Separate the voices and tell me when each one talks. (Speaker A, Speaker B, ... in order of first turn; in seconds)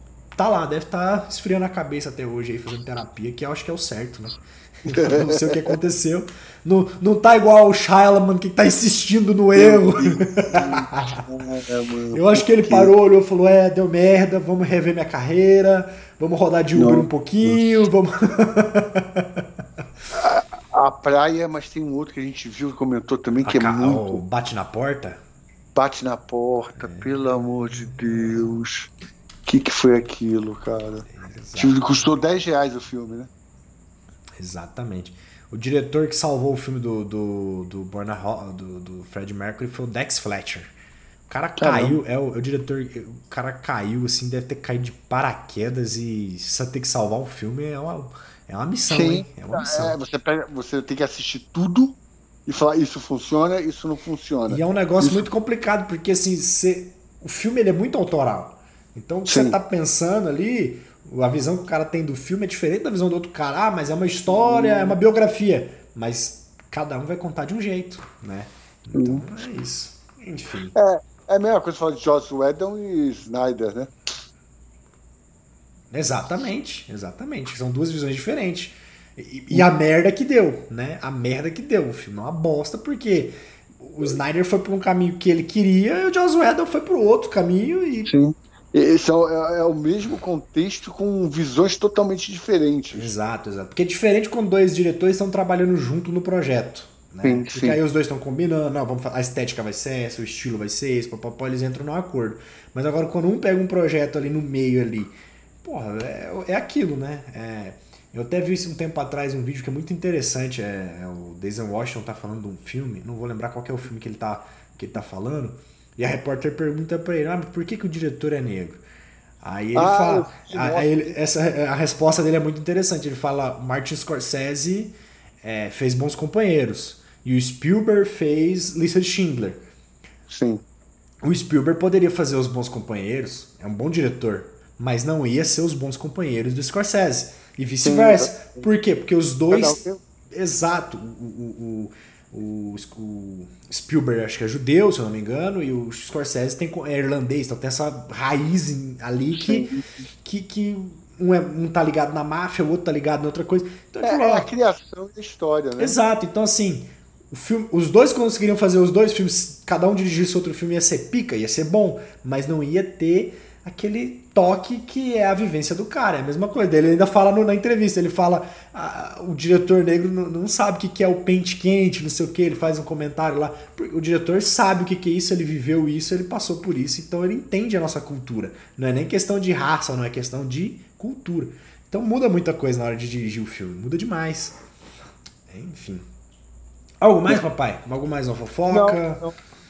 Speaker A: 0.3-11.2, 12.1-19.4, 23.4-25.2, 26.8-28.4, 31.1-32.1, 34.4-40.7, 41.3-50.0, 54.5-70.7, 75.9-88.1, 92.9-118.8, 119.4-129.6, 131.2-149.7, 150.2-154.5, 155.8-184.6, 185.5-186.1, 187.0-189.2
Speaker B: 4.9-5.7, 9.5-12.9, 16.7-17.6, 20.1-24.2, 25.7-28.9, 29.4-33.3, 41.6-42.0, 48.9-55.3, 59.3-59.6, 64.3-65.0, 68.9-69.2, 70.7-73.9, 88.1-93.1, 97.2-97.8, 119.7-121.2, 130.3-130.6, 137.8-138.6, 139.5-140.0, 149.3-149.9, 154.0-156.0, 188.7-189.4